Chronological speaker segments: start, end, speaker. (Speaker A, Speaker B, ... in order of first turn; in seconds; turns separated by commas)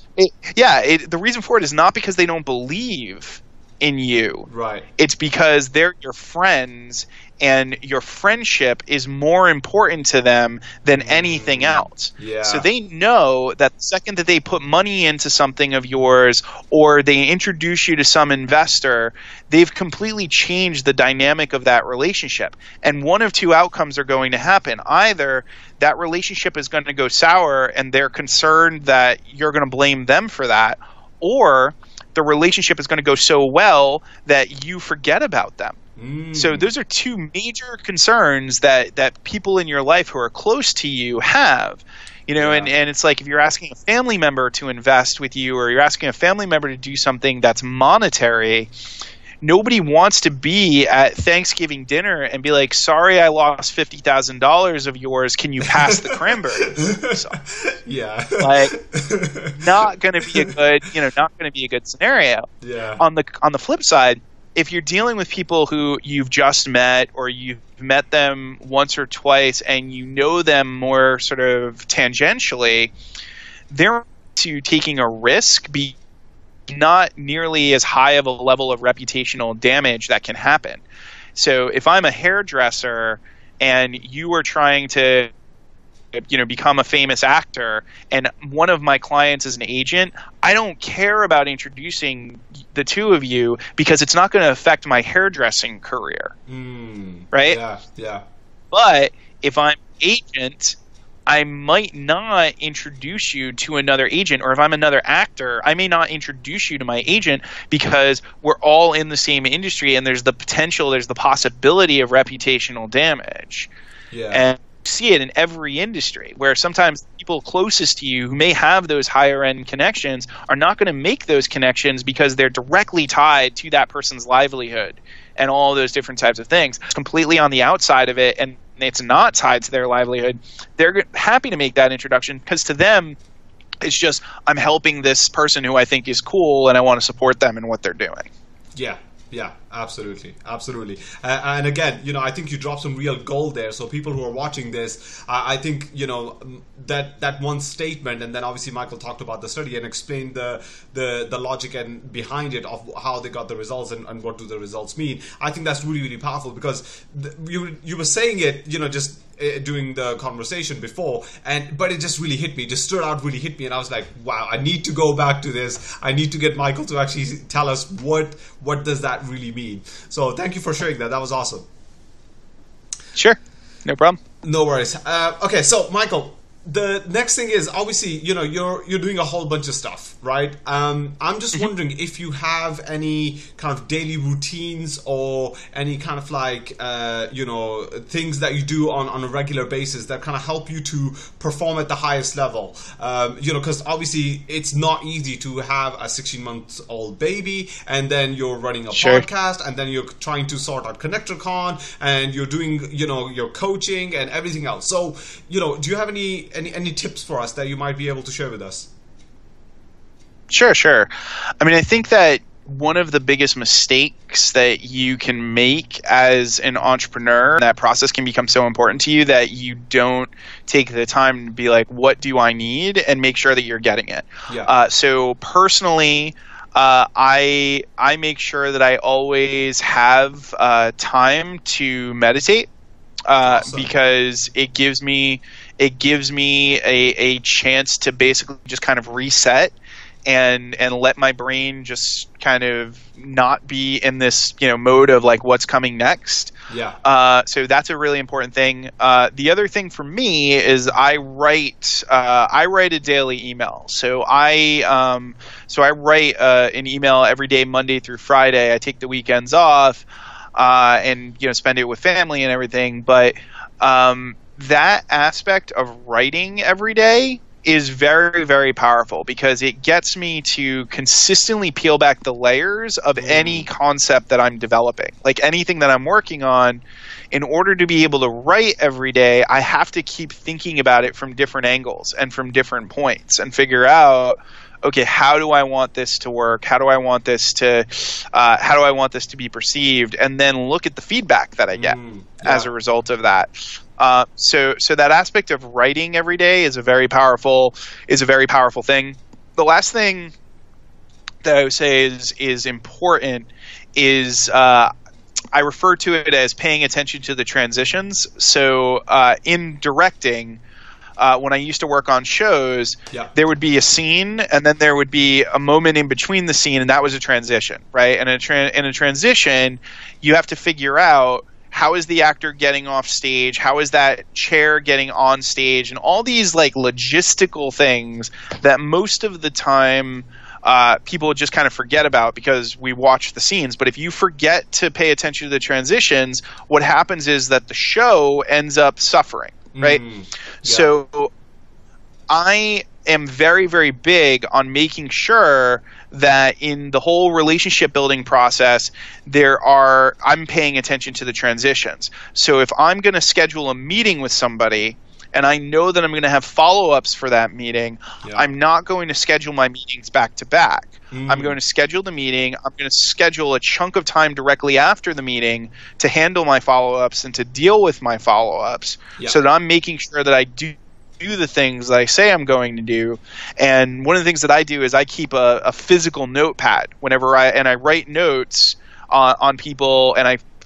Speaker A: 0.1-4.5, Speaker B: 4.5-4.8, Speaker A: 5.0-35.8, Speaker B: 11.0-12.7, Speaker B: 36.0-36.7, Speaker A: 36.3-48.7, Speaker B: 42.4-42.7, Speaker A: 49.4-57.4, Speaker B: 55.7-59.6, Speaker A: 58.4-58.7, Speaker A: 59.5-72.9, Speaker B: 60.2-60.5, Speaker B: 62.6-63.0, Speaker A: 73.7-76.0, Speaker A: 76.7-80.8, Speaker A: 81.3-85.3, Speaker A: 86.1-96.3, Speaker B: 96.5-98.2, Speaker A: 97.3-97.6, Speaker A: 98.7-113.7, Speaker B: 114.1-114.5, Speaker A: 114.3-133.2, Speaker A: 133.8-138.3, Speaker B: 138.7-171.7, Speaker A: 173.2-174.2, Speaker B: 174.4-208.9, Speaker A: 198.9-199.2, Speaker A: 210.5-232.7, Speaker A: 233.3-239.7, Speaker B: 233.4-233.9, Speaker A: 240.2-300.3, Speaker B: 246.7-247.0, Speaker B: 273.2-273.7, Speaker B: 291.7-292.7, Speaker A: 301.4-304.9, Speaker A: 305.5-310.6, Speaker A: 311.2-340.0, Speaker B: 339.7-340.9, Speaker A: 340.6-341.3, Speaker A: 342.3-380.4, Speaker B: 358.2-358.5, Speaker B: 361.1-361.6